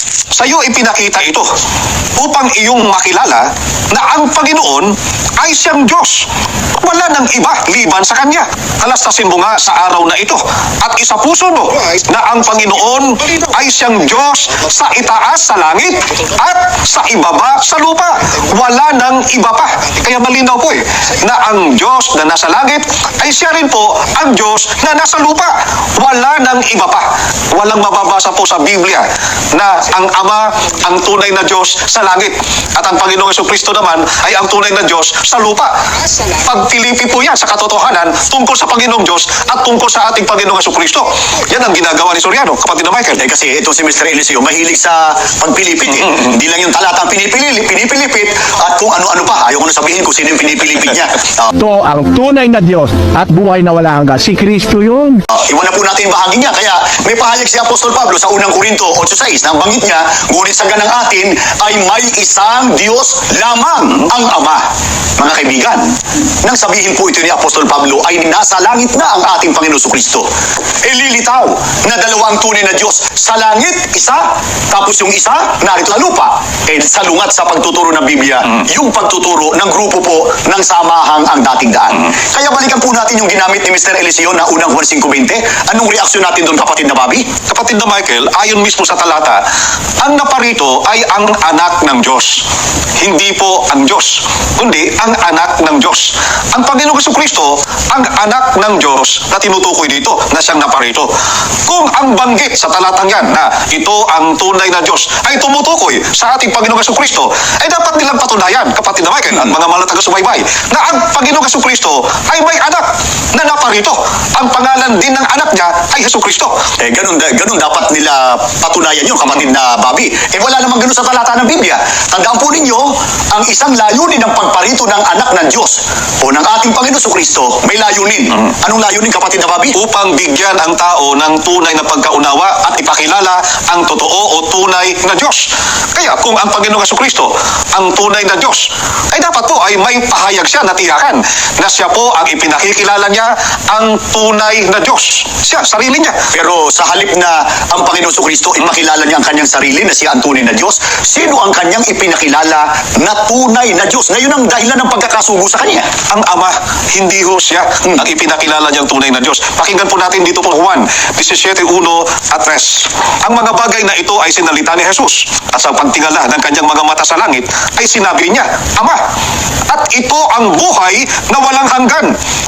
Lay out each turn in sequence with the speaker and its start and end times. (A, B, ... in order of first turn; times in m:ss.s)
0:00.3-0:01.5 A
0:02.2-0:06.3 A
0:06.8-0:35.7 A
0:36.4-0:43.2 A
0:43.2-0:51.5 B
0:51.5-0:55.2 C
0:55.3-1:04.6 B
1:05.2-1:05.9 B
1:06.4-1:10.3 B
1:10.8-1:27.3 B
1:27.5-1:29.4 A
1:30.0-1:32.4 A
1:33.0-1:41.1 A
1:41.7-1:56.5 A
1:56.8-2:09.8 B
2:09.8-2:26.2 A
2:26.3-2:35.9 B
2:36.1-2:49.0 A
2:49.7-2:52.1 A